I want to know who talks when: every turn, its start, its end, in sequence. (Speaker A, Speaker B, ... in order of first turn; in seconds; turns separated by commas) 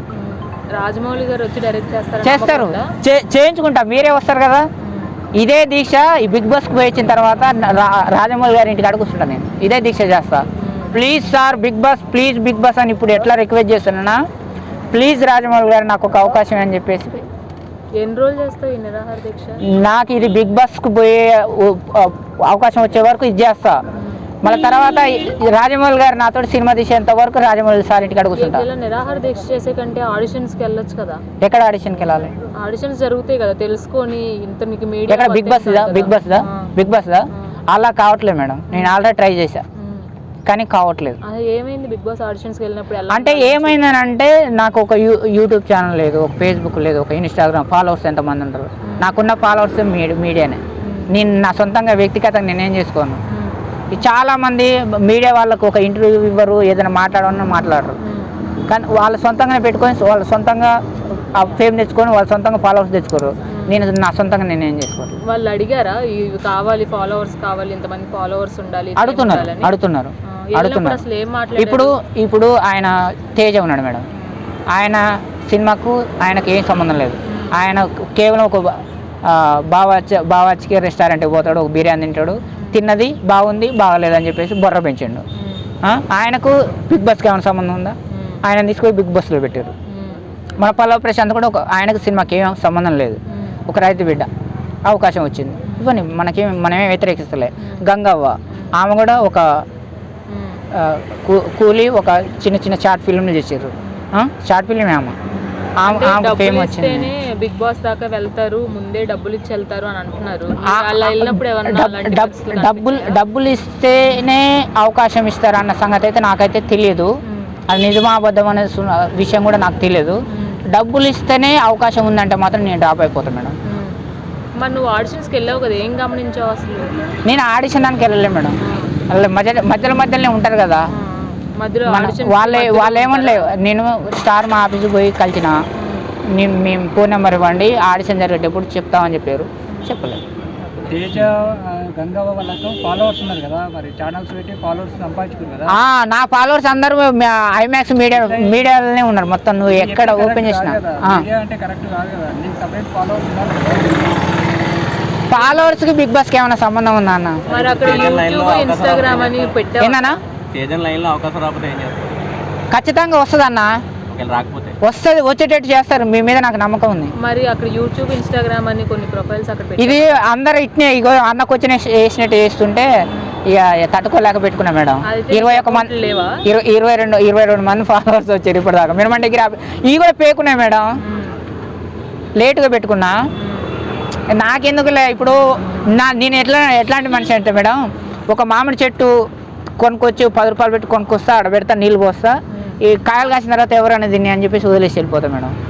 Speaker A: 0.1-2.9, Speaker B: 2.2-4.7, Speaker A: 4.8-5.1, Speaker B: 5.3-14.2, Speaker A: 10.6-11.2, Speaker B: 14.9-17.2, Speaker A: 17.9-19.6, Speaker B: 19.6-23.8, Speaker B: 24.4-28.6, Speaker A: 28.3-31.2, Speaker B: 31.4-32.3, Speaker A: 32.5-36.7, Speaker B: 35.1-39.6, Speaker A: 38.7-39.0, Speaker A: 39.8-40.1, Speaker B: 40.5-41.2, Speaker A: 41.2-43.8, Speaker B: 43.1-53.2, Speaker A: 48.8-49.1, Speaker A: 50.8-51.1, Speaker A: 53.3-53.6, Speaker B: 53.9-58.0, Speaker A: 58.0-58.4, Speaker B: 58.7-65.2, Speaker A: 63.5-63.8, Speaker A: 65.2-69.7, Speaker B: 69.0-71.0, Speaker A: 70.3-71.9, Speaker B: 71.6-74.0, Speaker A: 74.1-74.4, Speaker B: 74.7-85.2, Speaker A: 77.2-77.5, Speaker A: 85.3-85.7, Speaker B: 85.8-89.7, Speaker A: 88.1-88.4, Speaker A: 89.9-90.2, Speaker B: 90.6-94.3, Speaker A: 93.3-93.6, Speaker B: 94.8-99.6, Speaker A: 100.3-100.6, Speaker B: 100.7-105.1, Speaker A: 105.3-113.2, Speaker B: 105.8-107.1, Speaker B: 110.6-117.1, Speaker A: 117.2-117.6, Speaker B: 117.7-123.5, Speaker A: 120.3-120.6, Speaker A: 123.6-124.0, Speaker A: 124.6-126.9, Speaker B: 127.2-128.6, Speaker A: 128.6-128.9, Speaker B: 129.1-130.9, Speaker A: 130.9-133.5, Speaker B: 131.9-135.6, Speaker A: 135.8-136.1, Speaker B: 136.3-140.2, Speaker C: 140.9-145.8, Speaker B: 145.7-151.2, Speaker C: 148.1-148.5, Speaker C: 149.7-154.2, Speaker B: 155.3-157.4, Speaker A: 155.3-155.8, Speaker D: 157.5-159.5, Speaker A: 157.5-160.1, Speaker B: 159.8-160.2, Speaker D: 160.5-162.2, Speaker B: 162.7-163.7, Speaker D: 164.1-164.8, Speaker B: 164.8-167.1, Speaker A: 167.2-170.2, Speaker B: 169.8-172.9, Speaker A: 173.1-173.3, Speaker B: 173.5-175.9, Speaker A: 175.1-176.4, Speaker B: 176.4-181.0, Speaker A: 181.0-181.4, Speaker B: 182.4-183.2, Speaker A: 183.3-183.8, Speaker B: 184.3-189.3, Speaker B: 189.8-195.5